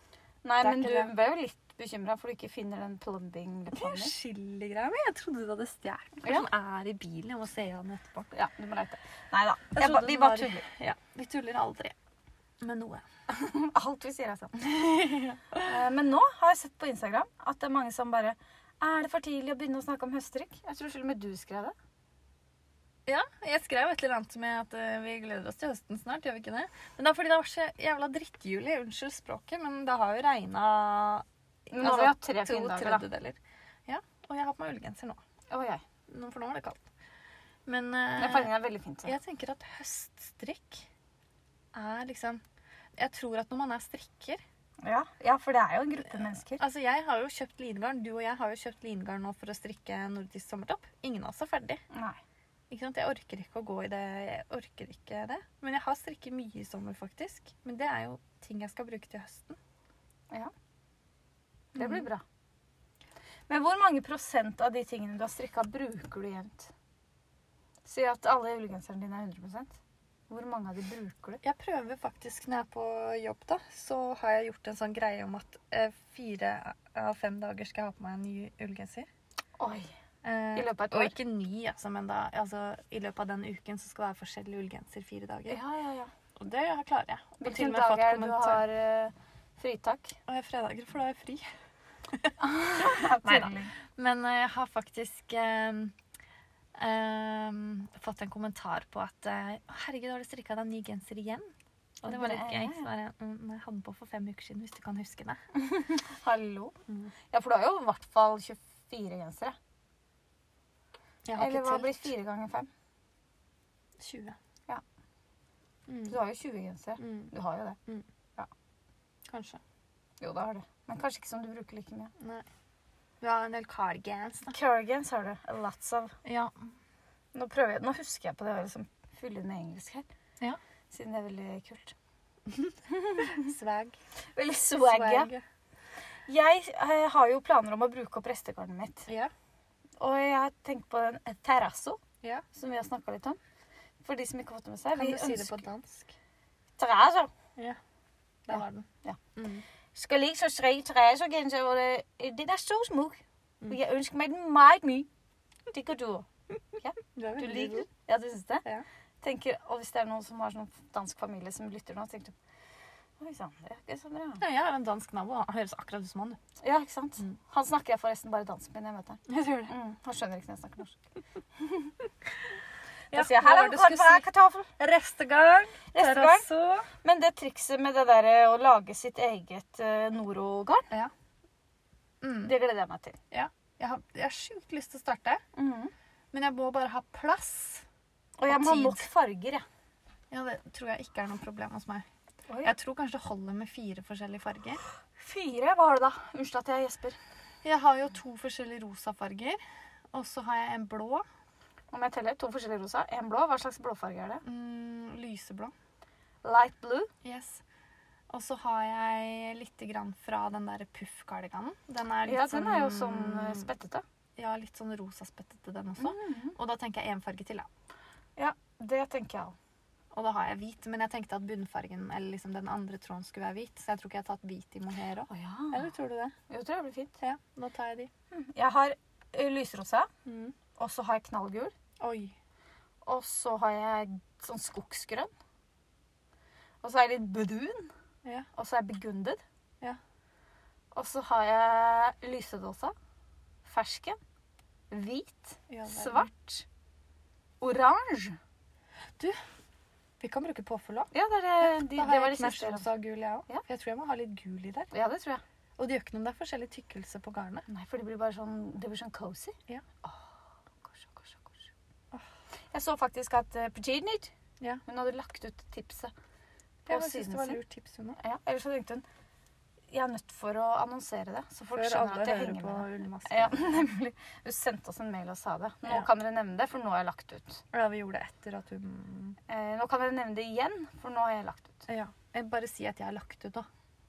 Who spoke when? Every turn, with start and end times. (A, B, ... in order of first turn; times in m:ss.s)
0:00.4-0:04.1 A
0:00.6-0:01.1 B
0:03.8-0:08.3 B
0:08.3-0:10.6 A
0:09.8-0:11.9 B
0:12.6-0:13.0 B
0:13.3-0:14.6 A
0:14.6-0:15.7 B
0:15.6-0:21.7 A
0:23.1-0:35.2 B
0:31.7-0:33.1 A
0:35.5-0:35.8 A
0:36.1-0:36.9 B
0:37.6-0:40.9 B
0:38.2-0:39.1 A
0:41.7-0:42.4 B
0:43.0-0:44.4 B
0:44.8-0:46.6 A
0:46.6-0:51.8 B
0:51.9-0:52.2 A
0:52.7-0:59.6 B
1:01.7-1:02.2 A
1:01.8-1:02.1 B
1:03.5-1:06.7 A
1:07.8-1:09.8 A
1:10.3-1:11.4 A
1:11.4-1:19.1 B
1:19.6-1:19.9 A
1:20.2-1:25.6 B
1:20.6-1:21.1 A
1:25.5-1:26.1 A
1:26.4-1:28.6 B
1:27.4-1:30.2 A
1:30.3-1:31.4 B
1:32.1-1:35.9 B
1:32.4-1:33.7 A
1:36.8-1:41.5 B
1:42.0-1:45.4 B
1:42.0-1:42.9 A
1:45.6-1:49.6 A
1:51.2-1:52.1 B
1:51.4-1:52.7 A
1:54.0-1:54.4 B
1:55.9-1:56.2 B
1:56.1-1:57.8 A
1:57.0-1:57.3 B
1:59.3-1:59.6 B
2:00.2-2:02.1 A
2:02.2-2:02.4 B
2:03.2-2:04.6 B
2:04.5-2:06.2 A
2:06.2-2:06.5 B
2:07.3-2:10.0 A
2:10.9-2:11.9 A
2:12.5-2:14.0 B
2:12.9-2:13.5 A
2:14.4-2:15.3 A
2:14.8-2:15.4 B
2:16.3-2:19.1 A
2:20.0-2:22.0 A
2:22.5-2:23.4 A
2:24.0-2:25.6 A
2:24.9-2:26.1 B
2:26.8-2:27.3 A
2:28.4-2:29.6 B
2:29.9-2:35.1 A
2:35.7-2:38.6 A
2:37.1-2:37.9 B
2:39.2-2:42.3 A
2:43.2-2:44.4 A
2:44.4-2:46.4 B
2:46.6-2:51.0 A
2:49.3-2:49.7 B
2:51.6-2:51.9 A
2:53.1-2:54.3 B
2:53.1-2:54.7 A
2:54.8-2:56.9 B
2:55.9-2:56.5 A
2:57.0-3:00.9 A
3:02.2-3:02.5 B
3:02.4-3:03.2 A
3:03.3-3:05.4 B
3:05.6-3:05.9 A
3:06.3-3:07.8 B
3:08.4-3:09.6 A
3:08.5-3:09.1 B
3:10.3-3:12.0 B
3:12.6-3:14.8 B
3:15.2-3:17.2 A
3:17.6-3:19.6 B
3:20.1-3:21.2 B
3:21.9-3:24.4 A
3:24.4-3:25.7 B
3:26.4-3:27.1 A
3:27.2-3:27.6 B
3:28.3-3:33.7 B
3:32.2-3:34.0 A
3:34.4-3:37.7 B
3:36.0-3:36.6 A
3:38.4-3:39.6 A
3:40.1-3:46.3 B
3:45.3-3:45.9 A
3:46.5-3:47.1 A
3:47.2-3:48.1 B
3:48.3-3:50.1 A
3:50.2-3:50.6 B
3:50.8-3:51.7 A
3:52.0-3:52.3 B
3:53.0-3:55.3 A
3:56.8-3:57.9 A
3:58.6-3:59.4 A
4:00.9-4:02.9 A
4:03.6-4:04.2 A
4:04.9-4:06.6 A
4:05.7-4:06.3 B
4:07.6-4:08.4 A
4:10.2-4:14.9 B
4:11.1-4:12.9 A
4:14.9-4:15.4 A
4:15.8-4:17.6 B
4:17.7-4:21.7 A
4:22.7-4:24.3 A
4:24.9-4:26.1 A
4:26.9-4:27.6 A
4:26.9-4:28.2 B
4:28.2-4:29.0 A
4:29.9-4:37.6 A
4:31.7-4:33.8 B
4:37.7-4:39.4 B
4:39.5-4:41.9 A
4:41.9-4:43.7 B